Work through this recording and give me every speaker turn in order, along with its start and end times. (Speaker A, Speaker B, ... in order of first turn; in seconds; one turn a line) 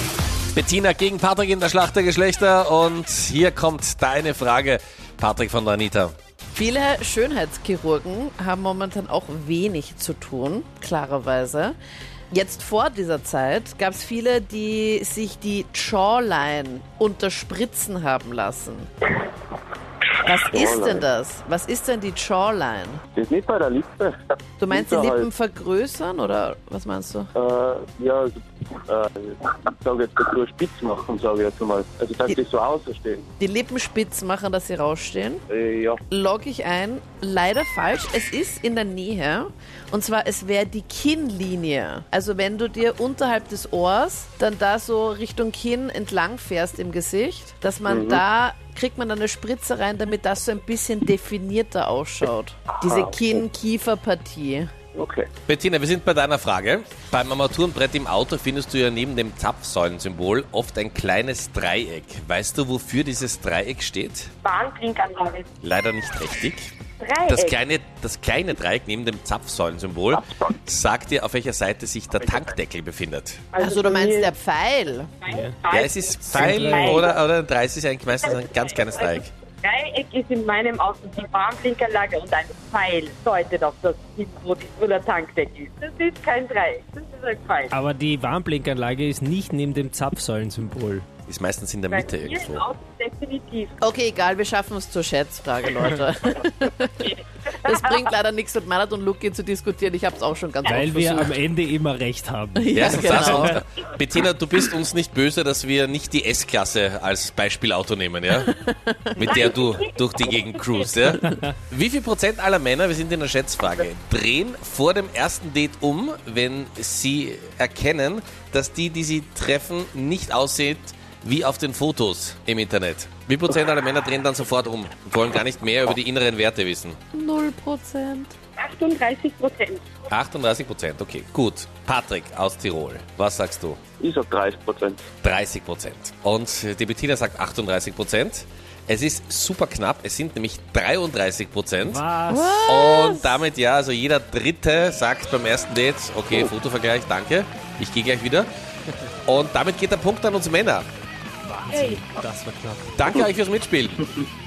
Speaker A: 0.5-6.1
Speaker B: 6.5-11.8
Speaker B: 12.3-18.9
Speaker B: 20.2-23.0
Speaker C: 20.5-21.0
Speaker C: 23.1-25.3
Speaker B: 24.6-27.3
Speaker C: 27.3-33.2
Speaker B: 33.4-35.4
Speaker C: 35.5-36.0
Speaker B: 36.1-54.7
Speaker C: 47.9-48.2
Speaker C: 52.8-53.2
Speaker C: 54.9-55.3
Speaker A: 55.5-64.3
Speaker D: 64.4-65.5
Speaker A: 65.6-66.7
Speaker D: 67.0-67.6
Speaker A: 67.3-73.4
Speaker D: 73.5-74.3
Speaker B: 73.6-75.1
Speaker D: 75.2-77.2
Speaker A: 75.7-79.3
Speaker E: 76.3-77.0
Speaker D: 78.2-87.7
Speaker E: 87.7-91.0
Speaker A: 91.3-92.6
Speaker D: 91.9-93.8
Speaker B: 93.8-97.1
Speaker D: 97.0-97.8
Speaker B: 97.6-101.4
Speaker E: 100.7-103.6
Speaker B: 102.5-103.6
Speaker A: 102.7-108.5
Speaker B: 108.3-109.3
Speaker A: 109.2-127.0
Speaker D: 109.3-111.1
Speaker B: 127.1-128.3
Speaker D: 128.6-129.8
Speaker A: 130.1-133.8
Speaker C: 134.0-135.1
Speaker A: 135.2-142.0
Speaker E: 141.8-142.6
Speaker B: 142.3-143.4
Speaker A: 142.7-148.5
Speaker A: 149.3-150.8
Speaker E: 151.4-152.9
Speaker D: 151.7-152.1
Speaker A: 152.9-154.0